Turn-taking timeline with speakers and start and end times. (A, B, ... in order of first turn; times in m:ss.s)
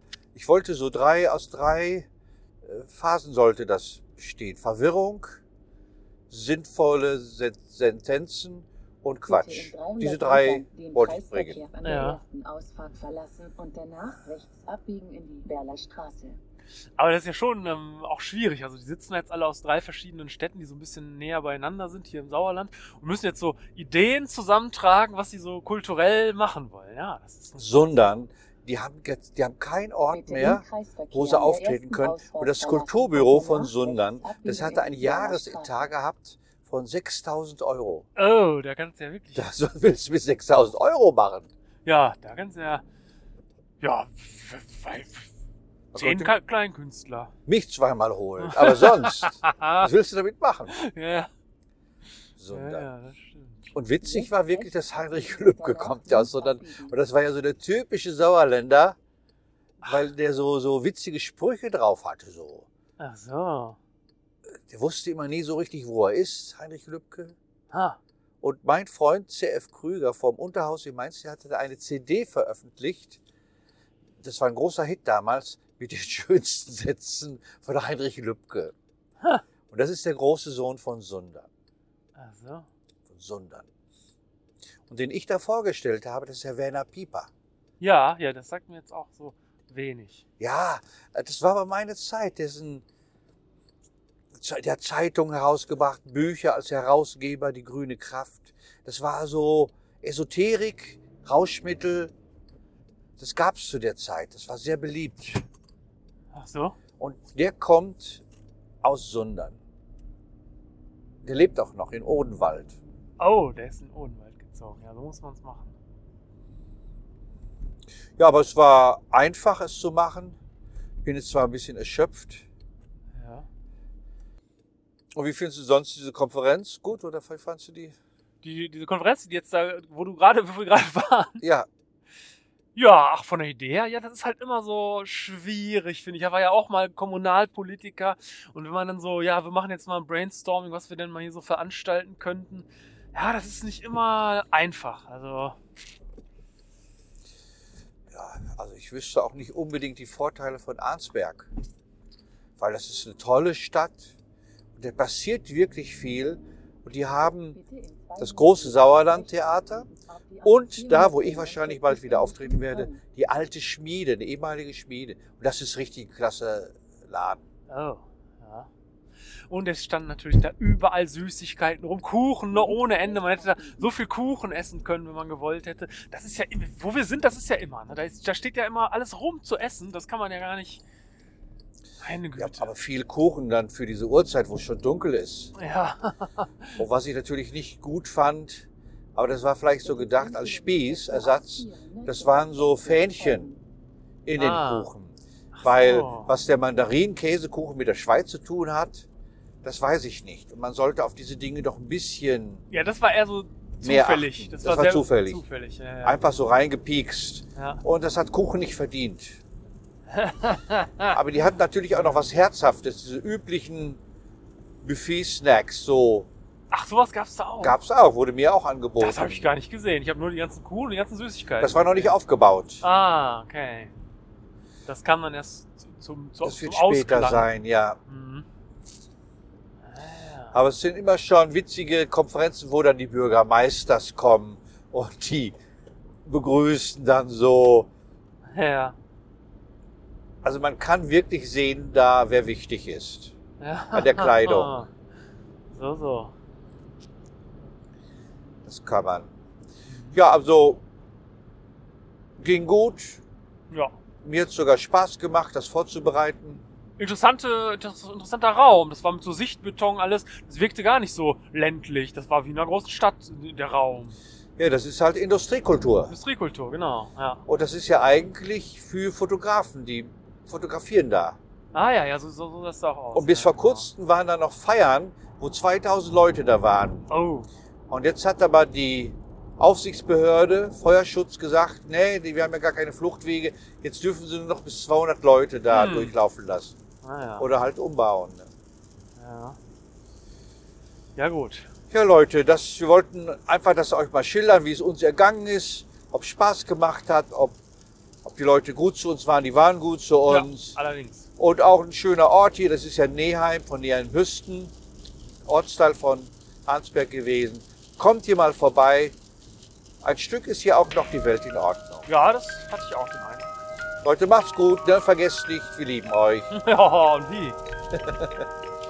0:00.3-0:02.1 A
0:02.6-0:05.4 A
0:06.3-0:11.6 A
0:09.2-0:16.4 B
0:11.8-0:12.2 C
0:17.0-0:28.0 C
0:27.6-0:38.1 A
0:30.1-0:35.9 B
0:38.2-0:39.5 C
0:39.3-0:41.5 A
0:41.8-0:42.8 C
0:43.8-0:45.3 C
0:45.9-0:46.4 A
0:45.9-0:47.3 C
0:47.4-0:50.8 A
0:48.4-0:49.9 C
0:50.7-0:51.3 C
0:52.4-0:52.9 A
0:52.5-0:53.7 C
0:53.7-0:59.0 A
0:54.0-0:57.0 B
0:59.8-1:02.7 A
1:03.0-1:03.8 C
1:04.5-1:07.3 A
1:07.7-1:08.0 C
1:08.4-1:13.2 A
1:14.2-1:18.7 A
1:19.7-1:21.5 A
1:22.1-1:22.7 C
1:23.1-1:23.7 A
1:24.9-1:27.3 A
1:27.8-1:30.2 C
1:30.4-1:32.8 A
1:34.4-1:42.1 A
1:43.2-1:45.4 A
1:46.3-1:46.8 C
1:47.0-1:48.2 A
1:48.8-1:49.6 A
1:51.2-1:52.8 A
1:53.2-1:55.7 C
1:58.2-2:00.4 A
2:01.0-2:02.4 A
2:03.1-2:03.4 C
2:05.1-2:07.9 A
2:08.4-2:11.4 C
2:11.4-2:11.7 A
2:12.7-2:25.6 C
2:28.1-2:31.5 A
2:32.6-2:34.1 A
2:34.8-2:37.6 A
2:37.5-2:43.0 B
2:38.2-2:39.9 A
2:40.4-2:47.4 A
2:47.7-2:48.7 C
2:49.5-3:00.8 C
2:52.5-2:53.9 B
3:02.0-3:02.7 C
3:02.3-3:05.5 A
3:05.6-3:06.8 C
3:06.8-3:13.5 A
3:09.8-3:13.6 B
3:14.2-3:19.1 A
3:14.3-3:14.9 C
3:15.5-3:16.3 C
3:19.6-3:22.6 A
3:22.7-3:26.2 C
3:23.8-3:25.4 A
3:26.0-3:29.4 A
3:27.6-3:27.8 C
3:30.1-3:31.2 C
3:31.1-3:34.0 A
3:31.9-3:32.2 C
3:34.8-3:36.3 A
3:36.7-3:37.8 C
3:37.6-3:39.6 A
3:39.0-3:42.2 C
3:41.6-3:42.8 A
3:42.8-3:43.9 C
3:44.8-3:47.5 C
3:46.4-3:48.0 A
3:48.0-3:48.4 C
3:49.9-3:50.6 C
3:50.5-3:55.6 A
3:56.2-3:57.9 A
3:58.5-3:59.0 C
4:00.4-4:03.3 A
4:03.6-4:04.9 C
4:03.9-4:04.8 A
4:05.7-4:06.3 C
4:08.6-4:09.3 A
4:09.9-4:10.2 C
4:10.1-4:10.8 A
4:12.4-4:13.2 A
4:13.7-4:13.9 C
4:14.2-4:16.6 A
4:17.0-4:24.2 C
4:24.6-4:26.1 A
4:26.1-4:27.4 C
4:27.5-4:31.4 A
4:31.7-4:33.9 C
4:33.1-4:37.1 A
4:37.1-4:37.5 C
4:37.9-4:46.7 A
4:45.7-4:46.1 C
4:47.0-4:47.5 C
4:47.4-4:48.5 A
4:49.2-4:49.6 C
4:51.2-4:51.7 C
4:51.9-4:57.6 A
4:58.2-5:00.8 A
5:00.2-5:01.3 C
5:01.4-5:04.7 A
5:05.4-5:09.1 A
5:10.0-5:12.1 A
5:12.1-5:13.5 C
5:14.0-5:16.5 A
5:16.5-5:17.6 C
5:17.9-5:18.4 A